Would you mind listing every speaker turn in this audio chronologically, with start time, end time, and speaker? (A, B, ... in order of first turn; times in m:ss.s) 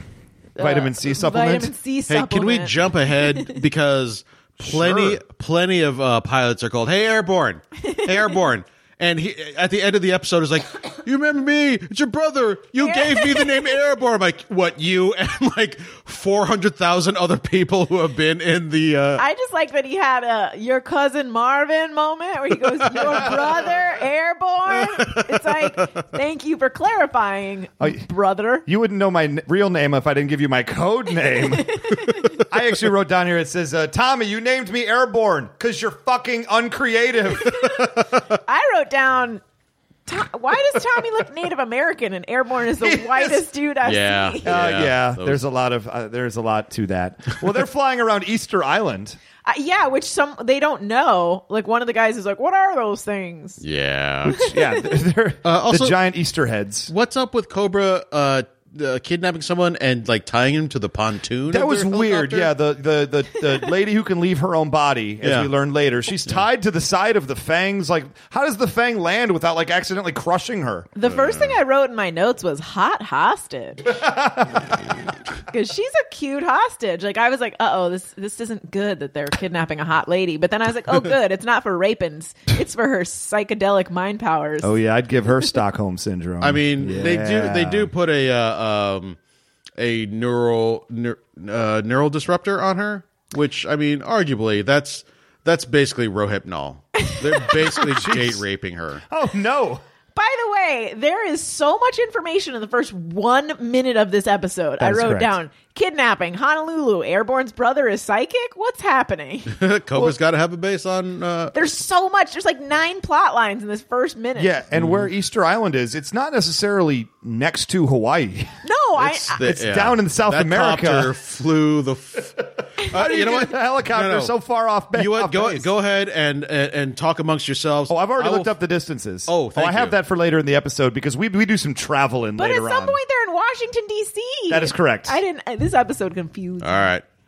0:00.6-0:03.5 A
0:00.6-0:01.7 B
0:02.1-0:19.2 C
0:04.6-0:05.2 B
0:12.8-0:13.5 A
0:19.2-0:28.6 A
0:22.9-0:23.3 C
0:25.0-0:25.5 C
0:28.6-0:37.6 B
0:31.9-0:32.4 A
0:38.4-0:39.4 A
0:40.1-0:44.5 A
0:42.8-0:43.4 B
0:43.8-0:45.4 C
0:44.4-0:49.2 B
0:49.4-0:53.6 A
0:53.6-0:54.5 C
0:54.3-0:54.8 A
0:54.5-0:56.9 B
0:55.4-0:56.0 C
0:56.9-1:02.5 C
1:01.5-1:10.9 B
1:05.2-1:05.5 C
1:11.0-1:14.0 A
1:11.0-1:11.6 C
1:13.9-1:14.8 B
1:15.5-1:24.8 A
1:24.6-1:27.9 B
1:26.4-1:29.2 C
1:29.8-1:39.0 C
1:37.8-1:38.4 B
1:39.1-1:39.8 B
1:40.2-1:49.6 A
1:44.8-1:45.4 B
1:49.5-1:51.6 C
1:51.5-1:54.5 A
1:54.4-2:01.1 B
1:54.7-1:55.1 C
1:58.6-1:59.4 A
1:59.0-2:04.3 C
2:02.9-2:05.7 B
2:04.9-2:08.5 C
2:07.9-2:13.0 B
2:09.3-2:10.0 C
2:12.4-2:16.9 A
2:14.5-2:15.2 B
2:16.6-2:17.0 C